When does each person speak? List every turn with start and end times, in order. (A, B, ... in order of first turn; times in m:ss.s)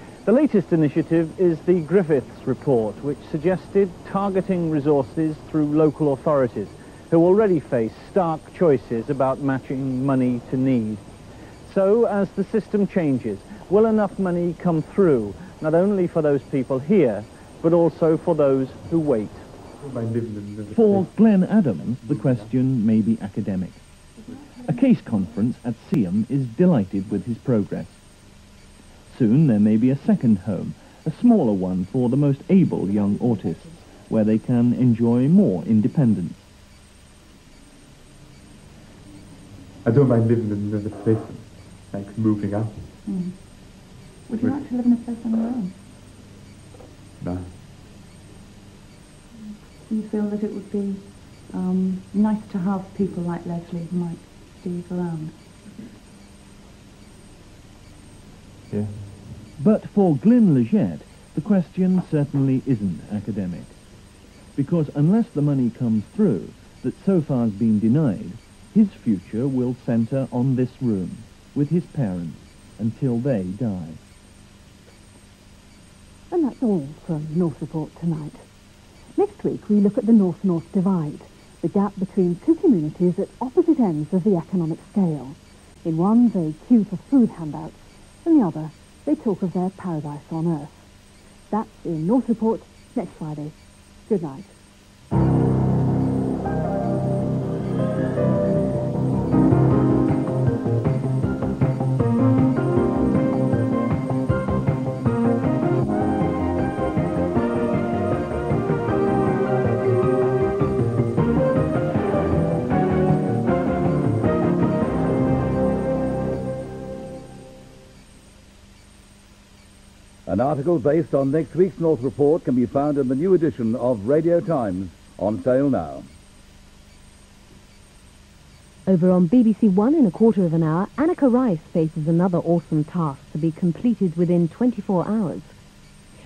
0:00.2-0:11.0 A
0:11.6-0:19.5 A
0:19.8-0:22.5 B
0:20.7-0:23.8 C
0:24.6-0:28.0 C
0:29.1-0:36.5 C
0:39.8-0:42.8 B
0:43.1-0:45.7 D
0:47.2-0:47.5 B
0:49.9-0:55.4 D
0:59.6-1:03.8 C
1:04.6-1:14.0 C
1:16.3-1:18.5 E
1:19.2-1:30.9 E
1:31.5-1:34.6 E
2:00.3-2:06.1 F
2:08.9-2:15.6 G